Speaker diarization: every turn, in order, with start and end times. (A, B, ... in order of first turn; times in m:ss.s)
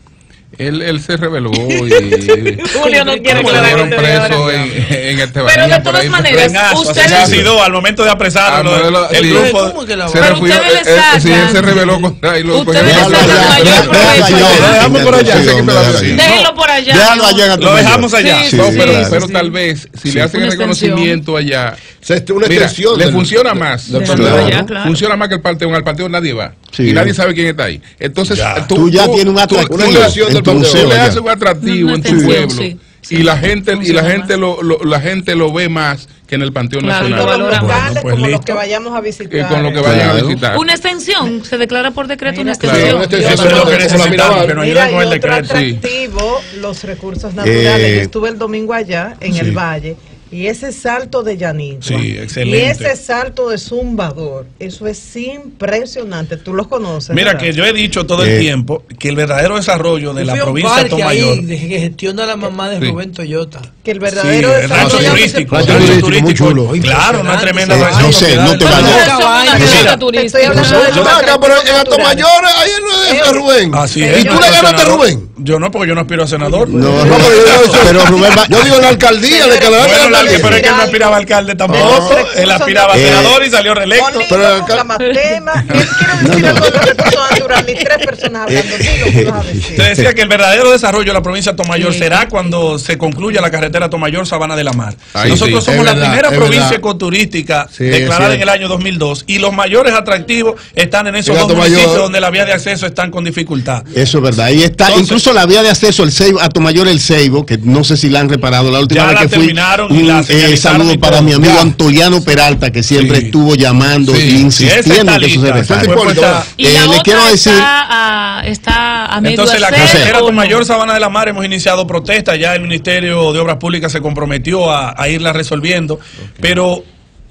0:00.6-0:02.7 A
0:02.6-0:04.5 B
0:02.7-0:04.7 C
0:03.3-0:07.3 A
0:05.4-0:07.4 B
0:06.3-0:09.8 D
0:07.0-0:07.5 E
0:08.4-0:16.2 A
0:09.0-0:10.4 C
0:10.2-0:11.8 B
0:11.3-0:12.1 C
0:12.5-0:14.8 B
0:12.8-0:16.3 E
0:13.0-0:15.1 C
0:13.8-0:16.5 D
0:16.1-0:17.5 B
0:16.9-0:19.2 E
0:17.6-0:18.7 D
0:18.2-0:19.6 B
0:18.5-0:21.8 A
0:20.1-0:21.2 B
0:22.0-0:24.6 F
0:22.4-0:37.4 A
0:23.9-0:25.1 B
0:24.1-0:24.6 E
0:26.7-0:27.2 E
0:28.3-0:28.8 D
0:28.7-0:31.2 E
0:29.5-0:31.0 F
0:31.6-0:34.3 B
0:32.1-0:32.4 E
0:36.8-0:38.0 B
0:37.0-0:40.0 G
0:37.5-0:38.6 D
0:39.3-0:40.6 A
0:39.8-0:40.4 E
0:40.5-0:44.2 B
0:42.6-0:43.0 A
0:42.6-0:44.5 F
0:43.0-0:45.6 D
0:43.4-0:57.5 G
0:45.5-0:45.8 A
0:47.4-0:48.1 E
0:49.3-0:49.6 D
0:51.8-0:53.0 D
0:57.1-1:01.4 D
0:58.2-0:58.5 E
1:00.2-1:03.7 C
1:03.8-1:05.4 G
1:04.1-1:10.0 D
1:04.7-1:06.8 F
1:04.7-1:10.0 C
1:05.6-1:06.0 E
1:07.7-1:09.1 E
1:08.6-1:11.1 B
1:09.5-1:12.3 G
1:10.5-1:15.3 F
1:10.6-1:11.1 C
1:13.0-1:14.6 G
1:13.7-1:18.0 D
1:16.7-1:18.6 E
1:16.9-1:20.7 F
1:19.2-1:23.3 G
1:19.8-1:24.3 D
1:21.7-1:22.2 E
1:22.9-1:23.4 E
1:23.9-1:29.9 G
1:24.3-1:24.9 F
1:25.0-1:25.4 B
1:26.2-1:26.8 E
1:28.5-1:30.1 E
1:29.8-1:43.9 D
1:31.7-1:32.3 B
1:35.1-1:35.7 A
1:35.2-1:36.8 F
1:37.7-1:38.5 F
1:41.2-1:42.1 F
1:43.9-1:56.1 E
1:44.8-1:45.2 D
1:48.9-1:51.8 D
1:52.9-1:53.4 D
1:54.0-1:54.4 A
1:54.5-1:56.5 D
1:55.7-1:56.5 F
1:56.6-2:00.6 B
1:56.6-1:57.7 E
1:59.2-2:06.9 D
1:59.8-2:00.1 E